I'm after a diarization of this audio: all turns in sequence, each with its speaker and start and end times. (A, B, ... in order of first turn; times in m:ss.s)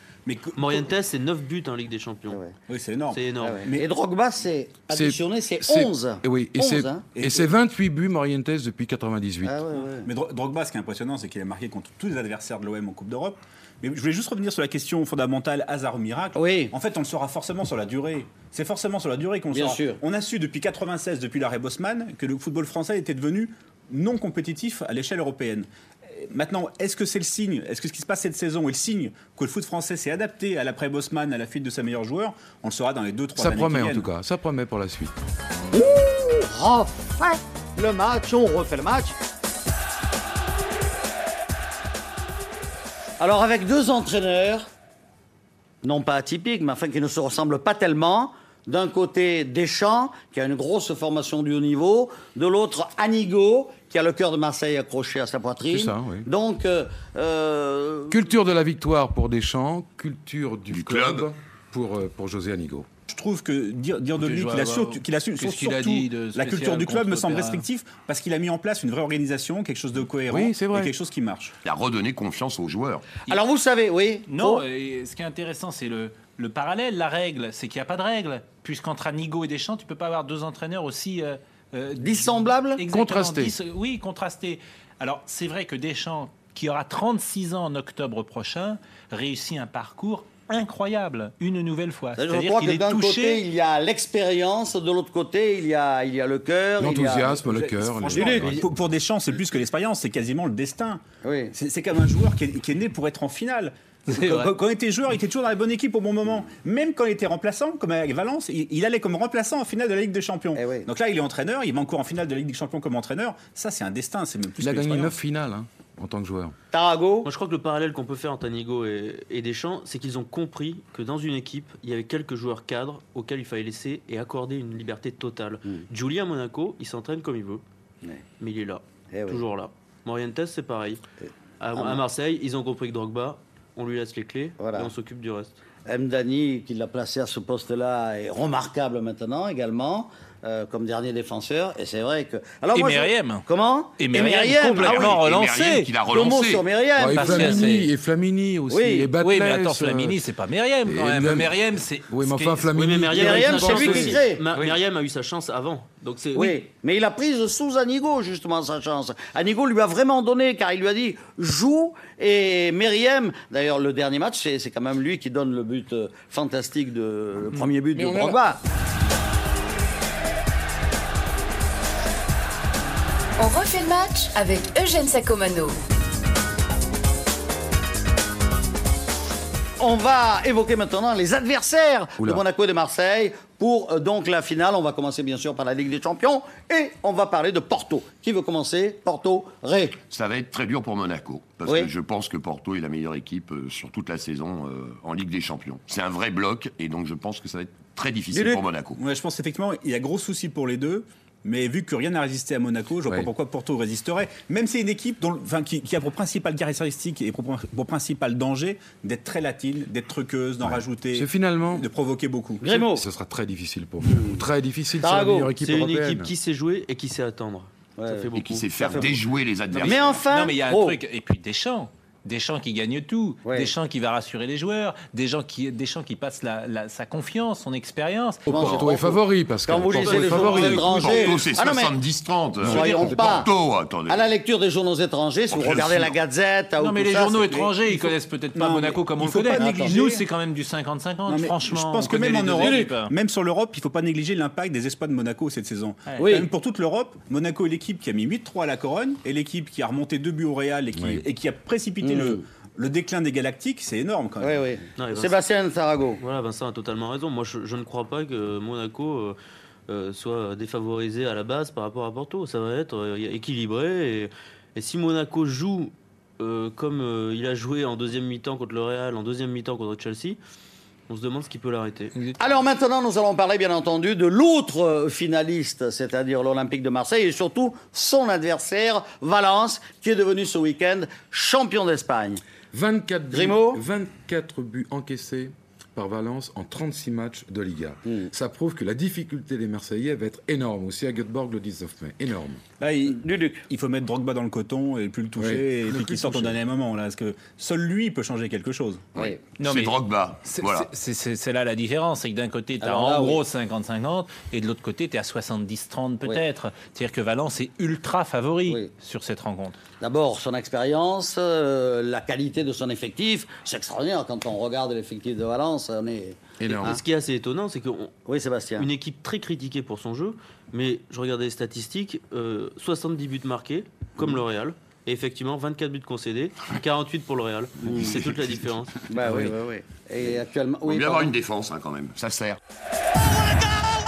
0:00.2-0:00.9 A
0:00.5-0:02.4 B
0:02.7-0:03.8 A
0:03.1-0:03.7 B
0:03.4-0:07.1 C
0:04.9-0:09.6 D
0:07.1-0:07.5 A
0:09.4-0:10.1 C
0:10.0-0:25.7 A
0:16.3-0:16.7 C
0:19.5-0:20.0 C
0:26.3-0:34.1 A
0:33.4-0:35.1 D
0:35.7-0:39.2 C
0:43.2-0:44.7 C
0:45.8-0:58.2 C
0:55.7-0:56.3 D
0:58.1-1:02.9 D
1:00.7-1:01.3 E
1:03.1-1:11.5 A
1:04.2-1:07.7 F
1:10.3-1:10.9 D
1:11.6-1:13.0 E
1:13.3-1:14.6 C
1:14.3-1:33.4 F
1:22.0-1:22.8 C
1:22.9-1:23.5 D
1:32.2-1:37.4 C
1:36.8-1:38.6 D
1:37.4-1:41.0 A
1:38.1-1:38.6 C
1:41.2-1:41.5 C
1:41.5-1:55.2 A
1:44.1-1:44.6 F
1:50.5-1:50.9 C
1:54.6-1:56.5 D
1:56.7-1:57.3 C
1:57.2-2:07.6 B
2:08.4-2:11.0 B
2:09.1-2:09.4 C
2:11.6-2:15.6 B
2:11.7-2:12.0 C
2:14.6-2:14.9 C
2:15.8-2:25.2 C
2:22.7-2:23.4 F
2:24.0-2:26.0 F
2:24.8-2:26.6 E
2:26.0-2:27.8 C
2:27.0-2:30.2 D
2:27.1-2:27.9 F
2:28.7-2:29.1 C
2:29.2-2:33.2 F
2:30.8-2:34.2 D
2:32.7-2:36.6 B
2:33.2-2:34.4 C
2:36.3-2:48.6 C
2:47.9-2:48.4 D
2:53.4-2:55.8 G
2:59.8-3:10.0 C
3:10.1-3:19.0 E
3:11.6-3:11.9 C
3:18.3-3:18.6 C
3:19.0-3:32.8 A
3:30.6-3:31.9 D
3:32.6-3:33.0 C
3:32.8-3:36.3 D
3:34.0-3:34.4 C
3:35.0-3:35.5 C
3:35.6-3:39.1 B
3:38.0-3:41.0 C
3:38.3-3:40.2 E
3:39.7-3:48.9 F
3:43.4-3:43.7 C
3:48.5-3:52.0 C
3:48.5-3:51.1 D
3:50.0-3:51.1 B
3:50.9-3:54.3 E
3:52.6-3:53.5 C
3:52.6-3:53.4 F
3:53.0-3:53.3 A
3:54.0-3:57.7 C
3:55.5-3:56.2 E
3:56.8-4:03.1 F
3:57.7-4:00.3 A
3:59.5-4:00.0 C
4:01.3-4:14.7 A
4:02.6-4:02.9 C
4:06.1-4:06.3 F
4:06.2-4:06.5 C
4:10.9-4:11.2 D
4:12.0-4:12.4 C
4:14.4-4:16.2 C
4:15.0-4:15.4 B
4:16.2-4:30.4 B
4:31.1-4:32.1 B
4:32.4-4:42.4 C
4:42.7-4:52.6 D
4:43.3-4:43.8 C
4:52.8-4:59.1 A
4:53.0-4:53.6 C
4:55.4-4:56.6 D
4:59.1-5:00.9 E
4:59.2-4:59.5 C
4:59.6-5:09.8 F
5:02.8-5:03.4 C
5:10.0-5:17.0 C
5:16.6-5:17.0 D
5:16.7-5:18.1 B
5:18.2-5:18.9 C
5:18.8-5:29.5 B
5:27.8-5:28.2 C
5:29.1-5:31.4 C
5:30.8-5:32.6 E